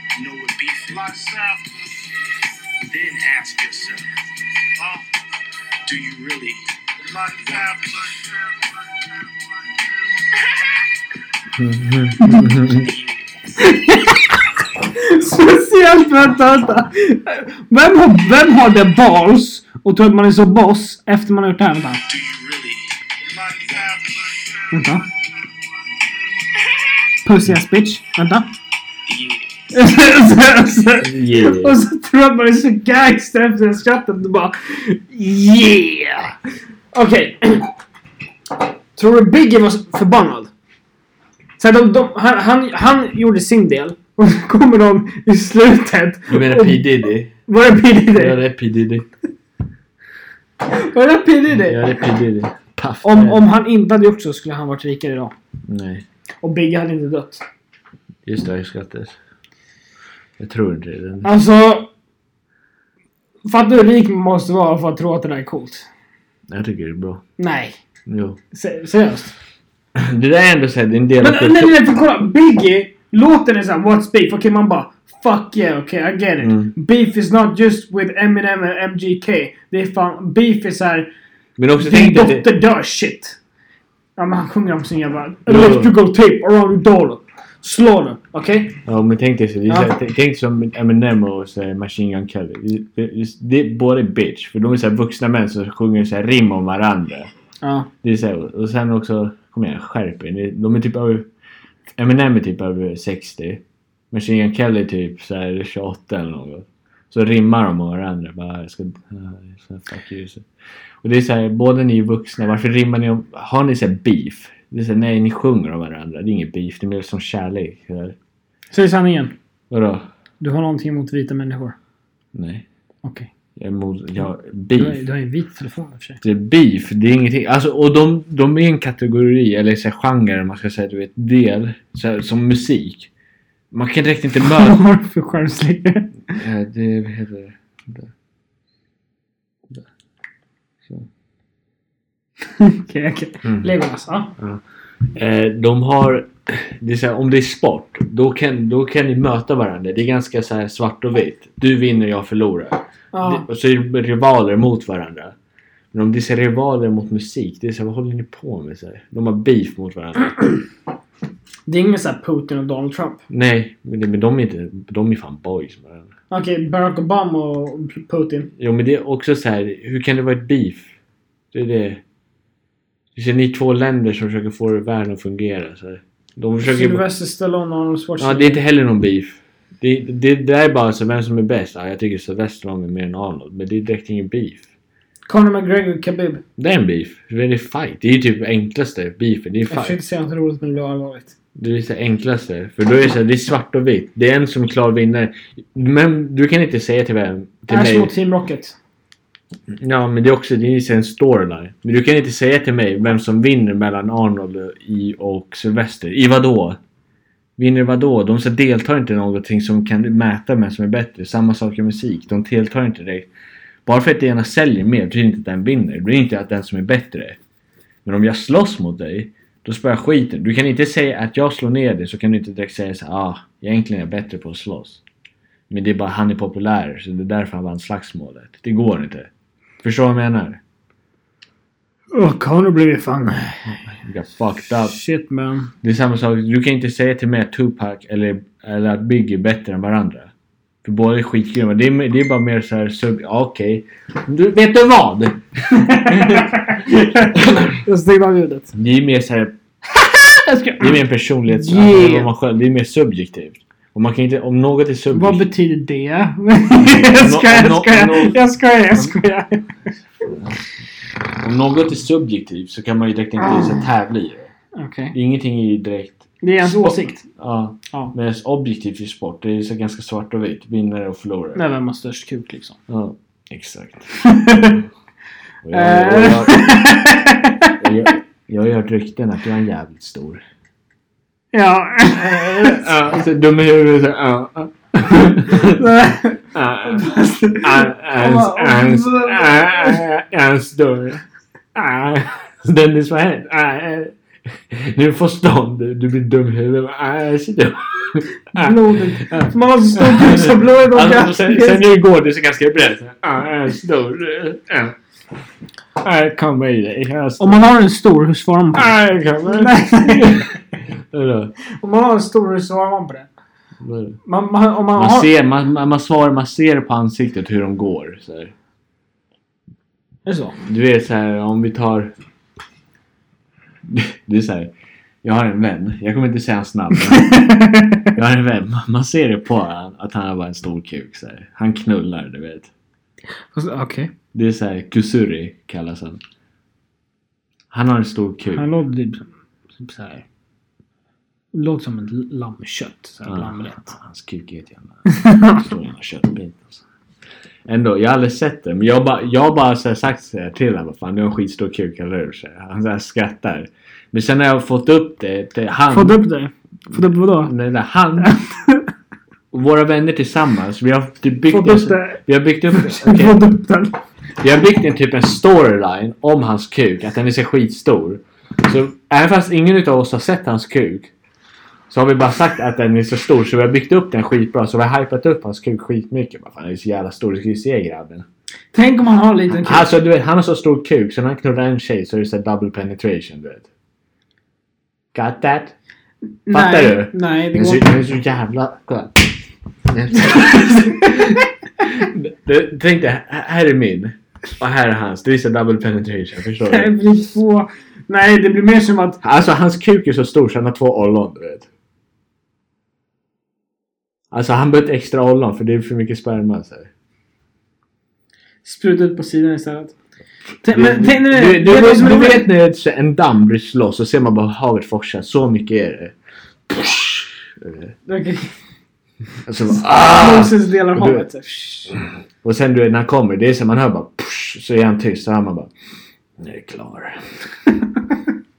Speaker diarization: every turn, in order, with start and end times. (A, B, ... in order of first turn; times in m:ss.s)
0:00.2-0:02.1 A
0:02.8-0:04.1 A
0:04.8-0:05.1 A
0:05.9-0:09.1 A
0:11.6-0:12.9 B
0:12.2-0:12.5 C
0:12.7-0:13.2 A
0:13.6-0:14.4 C
0:15.0-0:22.0 C
0:22.1-0:25.0 A
0:24.7-0:25.1 C
0:27.2-0:28.5 C
0:29.1-0:29.4 A
0:29.7-0:36.4 C
0:31.0-0:31.8 B
0:36.9-0:37.7 C
0:39.0-0:40.5 C
0:41.6-0:46.9 C
0:46.3-0:47.3 B
0:47.5-0:48.4 C
0:48.1-0:49.1 B
0:50.6-0:51.9 C
0:51.7-0:53.4 B
0:53.0-0:55.3 C
0:55.7-0:56.0 B
0:56.4-0:57.4 C
0:58.3-0:59.1 B
1:00.4-1:01.3 B
1:01.2-1:01.9 C
1:03.5-1:05.9 C
1:06.5-1:07.2 B
1:07.4-1:07.8 C
1:08.1-1:08.4 B
1:08.5-1:09.3 C
1:10.0-1:11.8 B
1:11.2-1:21.1 C
1:16.4-1:16.7 B
1:21.6-1:22.5 B
1:21.8-1:23.4 C
1:24.2-1:28.8 C
1:25.5-1:25.9 B
1:28.8-1:37.3 B
1:37.6-1:37.9 C
1:38.0-1:41.3 B
1:42.0-1:50.5 B
1:51.0-1:58.2 B
1:58.7-1:59.4 C
1:59.7-2:00.1 B
2:00.4-2:01.8 C
2:02.3-2:02.6 B
2:03.0-2:03.3 C
2:03.6-2:05.0 B
2:04.8-2:06.2 C
2:06.2-2:13.1 B
2:13.7-2:14.8 B
2:14.4-2:16.1 C
2:16.3-2:18.1 B
2:22.6-2:24.3 C
2:25.2-2:35.3 B
2:33.1-2:33.5 C
2:35.9-2:40.4 B
2:41.7-2:43.2 C
2:43.3-2:46.1 B
2:46.3-2:48.5 C
2:48.6-2:50.9 B
2:51.5-2:52.0 B
2:53.2-2:57.0 B
2:56.6-2:58.6 C
2:58.2-3:04.6 B
3:05.3-3:06.4 C
3:06.6-3:10.0 B
3:09.7-3:11.3 C
3:11.6-3:18.1 B
3:17.7-3:18.8 C
3:19.7-3:26.8 B
3:27.6-3:33.3 B
3:33.9-3:37.4 B
3:38.0-3:45.0 B
3:45.7-3:49.3 B
3:49.8-3:50.6 B
3:52.1-3:53.7 C
3:53.7-3:55.0 B
3:54.6-3:55.7 C
3:55.8-4:00.3 B
4:00.8-4:06.6 B
4:05.7-4:08.7 C
4:07.3-4:07.8 B
4:08.7-4:09.5 B
4:09.9-4:12.3 C
4:10.8-4:15.4 B
4:15.1-4:19.6 C
4:16.8-4:18.4 B
4:20.3-4:20.6 B
4:21.4-4:24.5 B
4:23.4-4:23.8 C
4:24.8-4:25.1 C
4:25.1-4:31.6 B
4:26.4-4:27.2 C
4:31.6-4:32.8 C
4:32.9-4:34.8 B
4:34.2-4:34.8 C
4:35.6-4:37.0 B
4:35.7-4:37.8 C
4:37.8-4:40.4 B
4:41.5-4:42.9 C
4:42.1-4:45.8 B
4:45.4-4:50.0 C
4:46.5-4:51.2 B
4:51.8-5:05.0 B
4:58.5-5:01.9 C
5:06.0-5:07.7 B
5:07.4-5:10.5 C
5:08.8-5:10.5 B
5:11.1-5:11.5 B
5:11.8-5:13.3 C
5:13.8-5:14.2 B
5:14.2-5:15.3 C
5:15.0-5:18.5 B
5:20.3-5:20.6 C
5:20.7-5:22.1 B
5:23.9-5:24.7 B
5:25.2-5:27.4 B
5:27.2-5:28.0 C
5:28.1-5:32.7 B
5:33.5-5:34.1 C
5:34.3-5:36.2 B
5:37.7-5:38.7 B
5:38.5-5:40.2 C
5:41.5-5:43.9 C
5:43.3-5:46.8 B
5:45.1-5:45.6 C
5:47.7-5:56.2 B
5:55.9-5:57.5 C
5:57.4-5:58.3 B
5:58.2-5:58.9 C
5:59.5-6:03.4 B
6:01.5-6:02.2 C
6:02.7-6:04.0 C
6:04.4-6:11.1 B
6:11.9-6:18.3 B
6:18.7-6:19.9 C
6:19.5-6:23.7 B
6:25.1-6:25.7 B
6:26.5-6:27.9 C
6:26.5-6:29.3 B
6:29.9-6:36.9 B
6:30.2-6:31.4 C
6:36.7-6:39.2 C
6:39.2-6:41.7 B
6:44.3-6:46.9 B
6:48.6-6:50.0 C
6:50.6-6:52.5 C
6:50.7-6:56.1 B
6:56.7-6:57.9 B
6:58.1-6:58.5 C
6:59.5-7:01.3 B
6:59.8-7:02.0 C
7:02.4-7:05.7 B
7:06.4-7:07.3 B